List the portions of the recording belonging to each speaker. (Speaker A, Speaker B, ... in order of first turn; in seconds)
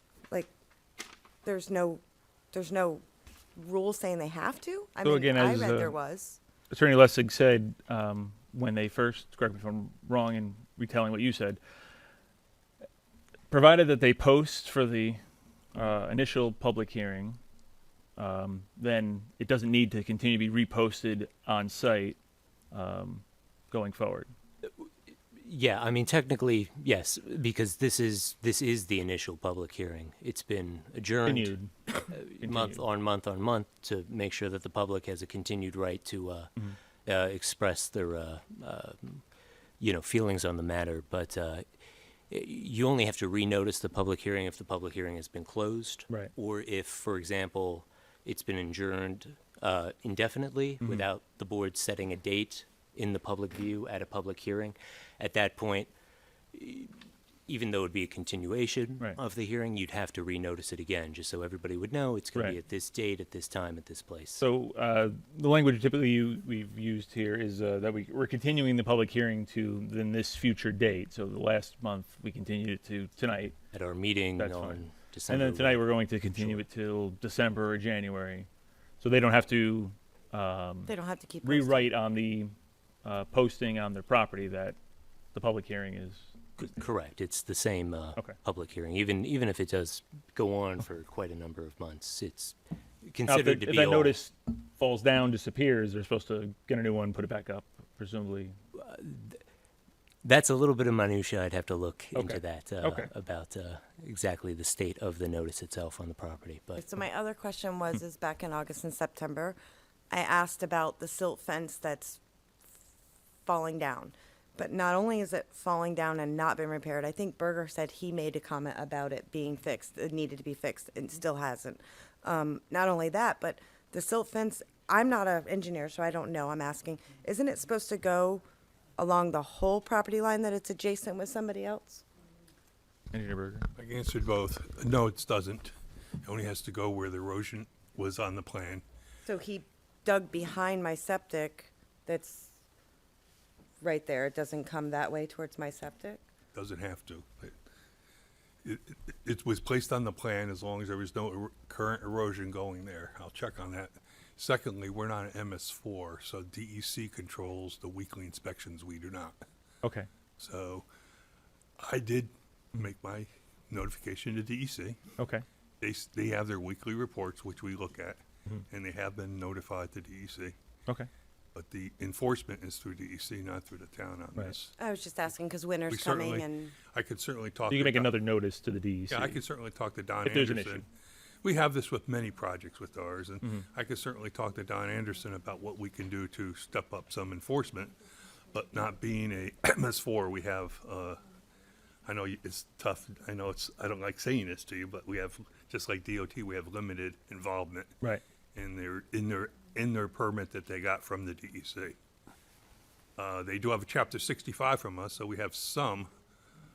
Speaker A: 1.4-3.0, 3.5-6.4, 80.8-81.9, 106.8-109.6, 110.1-112.2, 113.4-128.4, 129.0-132.0, 139.2-142.5, 143.8-146.2, 174.8-176.7
Speaker B: 5.0-5.9, 6.7-11.6, 13.5-15.2, 15.7-17.4, 18.2-22.2, 22.7-24.3, 31.2-32.8, 50.8-51.1, 64.4-73.5, 74.4-78.5, 79.0-80.9, 81.4-84.8, 85.3-86.6, 93.2-98.6, 102.1-103.1, 133.1-133.7, 159.8-160.1, 165.2-165.4, 177.7-179.4, 180.2-180.8
Speaker C: 24.8-36.5, 37.0-39.2, 39.8-41.6, 42.3-55.9, 56.5-64.4, 73.7-76.6, 86.6-94.2, 98.7-99.4, 100.2-106.9
Speaker D: 133.7-138.8, 146.5-147.5, 148.6-159.4, 160.4-160.8, 161.8-165.0, 165.8-170.5, 171.5-174.7, 175.9-178.2, 179.1-180.9, 181.4-187.9, 188.5-191.2, 192.0-198.0, 198.5-201.9, 203.2-206.1